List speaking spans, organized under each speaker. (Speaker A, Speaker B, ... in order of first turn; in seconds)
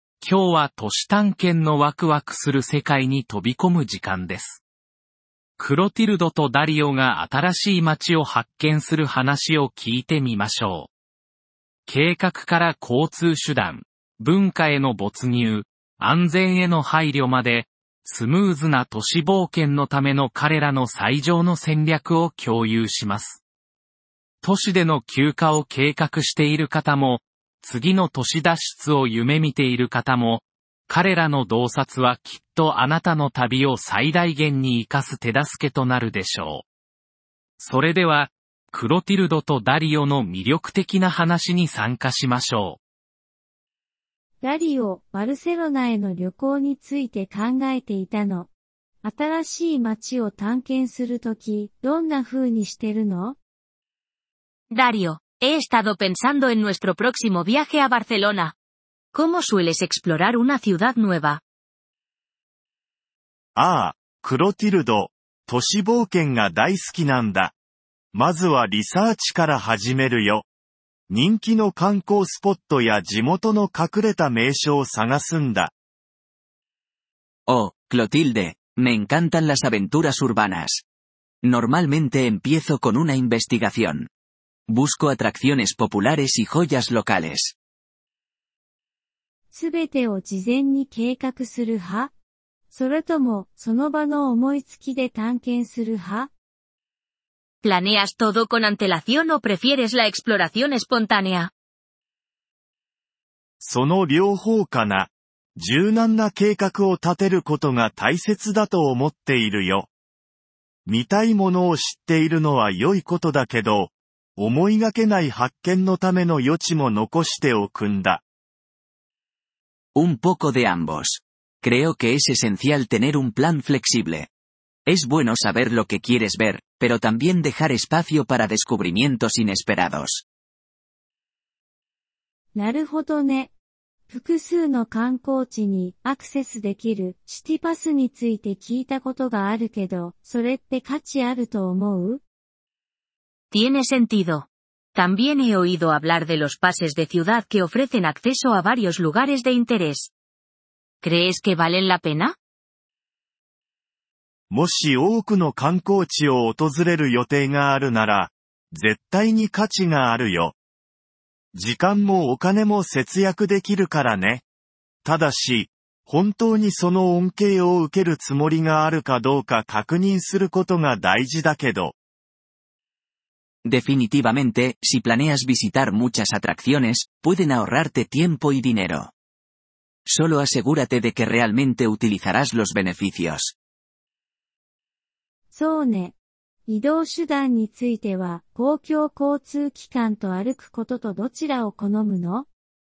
Speaker A: 0.2-4.6, 5.6-10.9, 11.9-23.4, 24.4-36.6, 37.6-42.8
Speaker B: 44.4-48.5, 49.0-53.4, 89.5-92.1, 92.7-96.3, 132.5-133.5, 134.1-142.2, 185.5-186.2, 186.7-192.5
Speaker C: 54.7-58.5, 59.1-61.4, 97.6-101.5, 143.5-150.1, 151.0-152.3
Speaker D: 63.6-67.5, 68.1-70.5, 71.1-75.7, 103.6-109.9, 110.9-118.2, 154.5-160.6, 161.5-164.4, 165.0-171.9
Speaker E: 77.5-80.8, 81.4-84.1, 84.7-87.5, 120.0-124.3, 124.9-130.2, 173.7-179.1, 180.1-183.5